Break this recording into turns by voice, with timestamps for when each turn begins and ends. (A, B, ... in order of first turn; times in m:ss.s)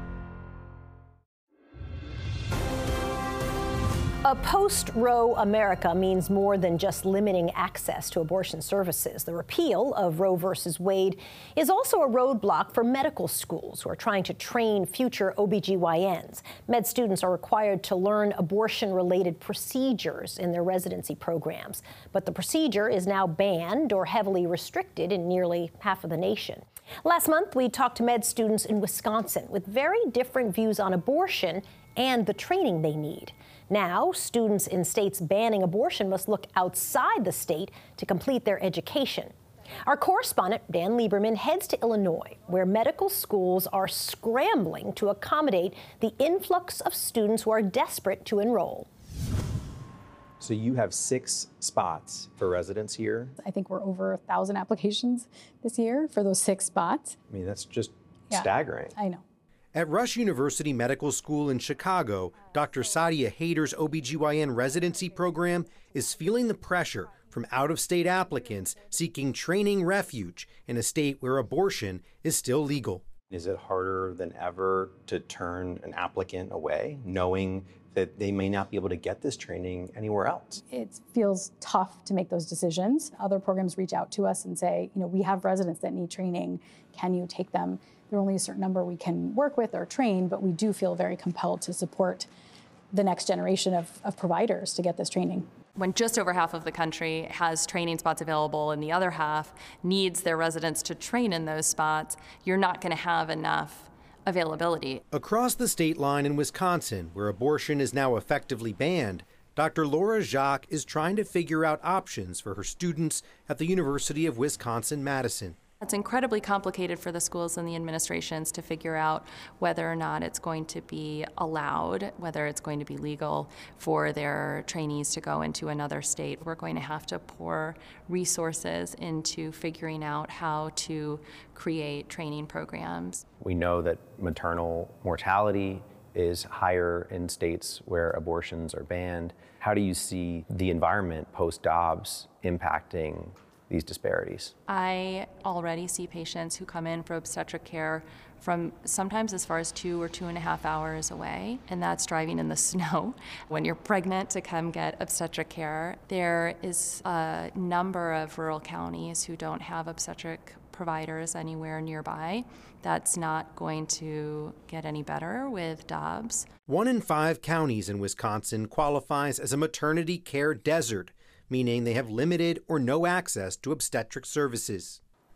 0:04.2-0:39.3 A
0:39.8-0:48.9 A
0:50.4-0:53.3 B
0:53.4-0:57.2 C
0:57.3-0:58.9 B
0:58.3-0:59.2 C
0:59.7-1:13.2 D
1:13.2-1:20.6 B
1:20.7-1:32.3 C
1:32.9-1:35.5 C
1:35.8-1:45.0 E
1:45.1-1:55.6 D
1:55.8-2:13.2 E
2:13.4-2:24.5 B
2:24.7-2:46.4 E
2:46.7-2:55.0 D